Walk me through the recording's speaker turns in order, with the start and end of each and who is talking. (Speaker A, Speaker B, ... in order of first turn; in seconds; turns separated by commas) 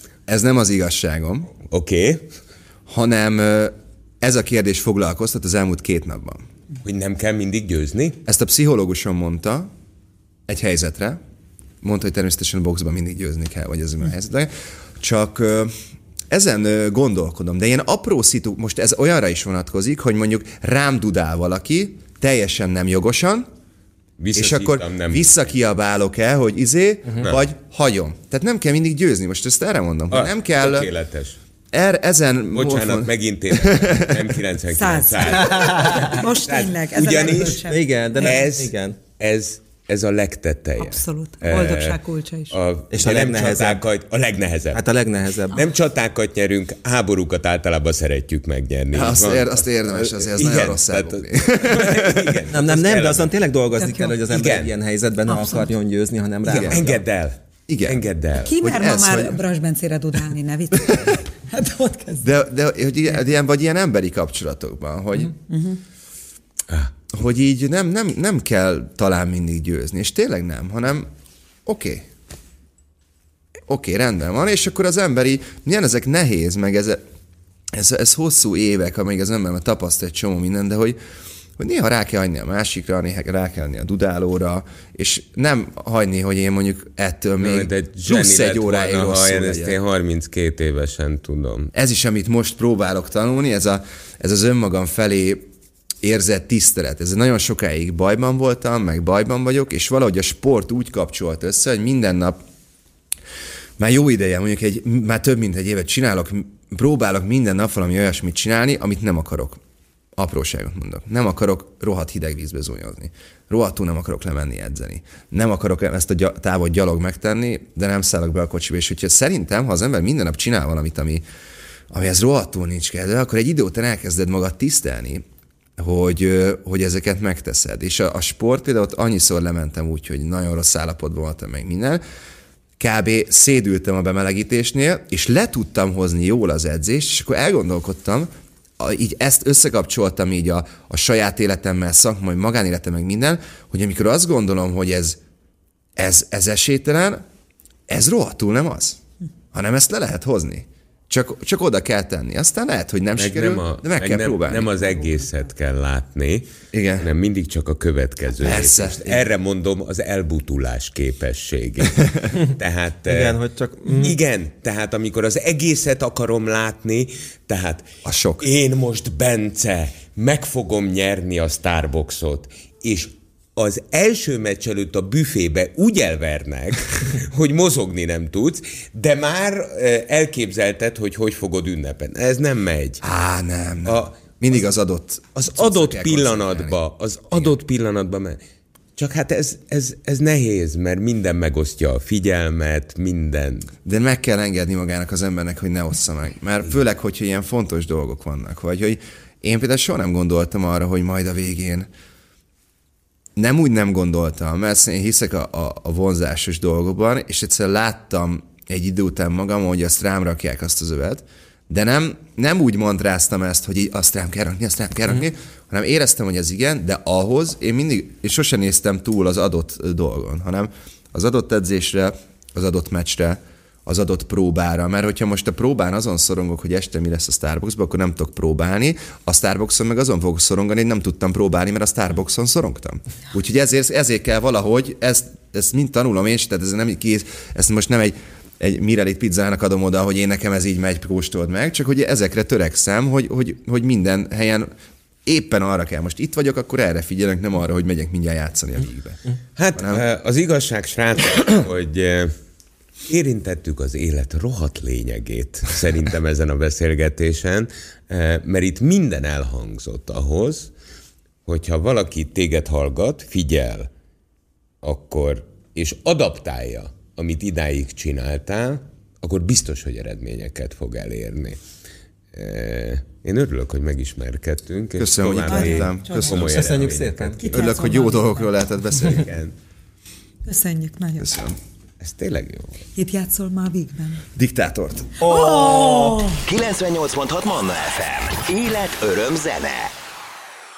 Speaker A: 0.3-1.5, Speaker B: 1.7-2.3, Speaker A: 2.9-6.4, Speaker B: 6.8-8.2, Speaker A: 8.2-9.7, Speaker A: 10.5-11.2, Speaker A: 11.8-15.7, Speaker A: 16.3-23.5, Speaker B: 24.2-25.5, Speaker A: 24.4-30.9, Speaker B: 30.1-31.4, Speaker A: 31.7-34.3, Speaker B: 32.5-37.6, Speaker C: 34.7-38.5, Speaker D: 35.5-36.2, Speaker D: 37.5-39.0, Speaker B: 38.2-44.8, Speaker C: 40.8-42.6, Speaker D: 42.9-43.8, Speaker D: 44.7-45.7, Speaker B: 45.5-53.3, Speaker A: 48.9-52.4, Speaker D: 52.5-57.0, Speaker C: 53.8-54.2, Speaker B: 54.3-54.7, Speaker C: 55.3-55.7, Speaker A: 56.5-56.8, Speaker B: 56.5-58.6, Speaker A: 57.7-58.0, Speaker C: 58.4-62.3, Speaker A: 58.6-59.4, Speaker A: 62.2-65.3, Speaker C: 65.5-65.8, Speaker A: 67.1-71.1, Speaker A: 71.7-72.1, Speaker A: 73.7-77.0, Speaker A: 77.7-81.0, Speaker A: 81.6-89.8, Speaker B: 87.4-91.7, Speaker A: 91.7-95.5, Speaker A: 96.0-102.4, Speaker A: 103.8-109.6, Speaker A: 110.2-121.2, Speaker A: 121.9-125.2, Speaker A: 125.8-132.0, Speaker A: 132.8-145.2, Speaker A: 146.0-147.2, Speaker A: 147.9-149.0, Speaker A: 149.5-154.7, Speaker B: 153.2-163.4, Speaker A: 156.7-157.1, Speaker A: 158.4-159.2, Speaker D: 163.1-164.2, Speaker B: 163.9-167.9, Speaker A: 168.0-168.5, Speaker B: 168.4-183.0, Speaker A: 183.0-186.8, Speaker B: 185.6-188.4, Speaker B: 189.0-193.7, Speaker A: 193.8-201.9, Speaker A: 203.4-244.7, Speaker A: 245.3-249.2, Speaker B: 249.6-252.3, Speaker A: 249.8-250.0, Speaker B: 253.1-260.7, Speaker B: 261.5-263.9, Speaker B: 264.8-271.6, Speaker B: 272.3-277.7, Speaker A: 275.0-276.8, Speaker C: 275.5-276.4, Speaker D: 276.4-277.4, Speaker C: 277.4-278.5, Speaker A: 277.5-279.4, Speaker B: 279.0-279.5, Speaker C: 280.4-281.3, Speaker A: 281.2-281.6, Speaker B: 282.0-282.9, Speaker C: 283.0-284.2, Speaker A: 284.4-285.2, Speaker D: 285.2-286.2, Speaker C: 285.2-286.4, Speaker E: 286.4-289.9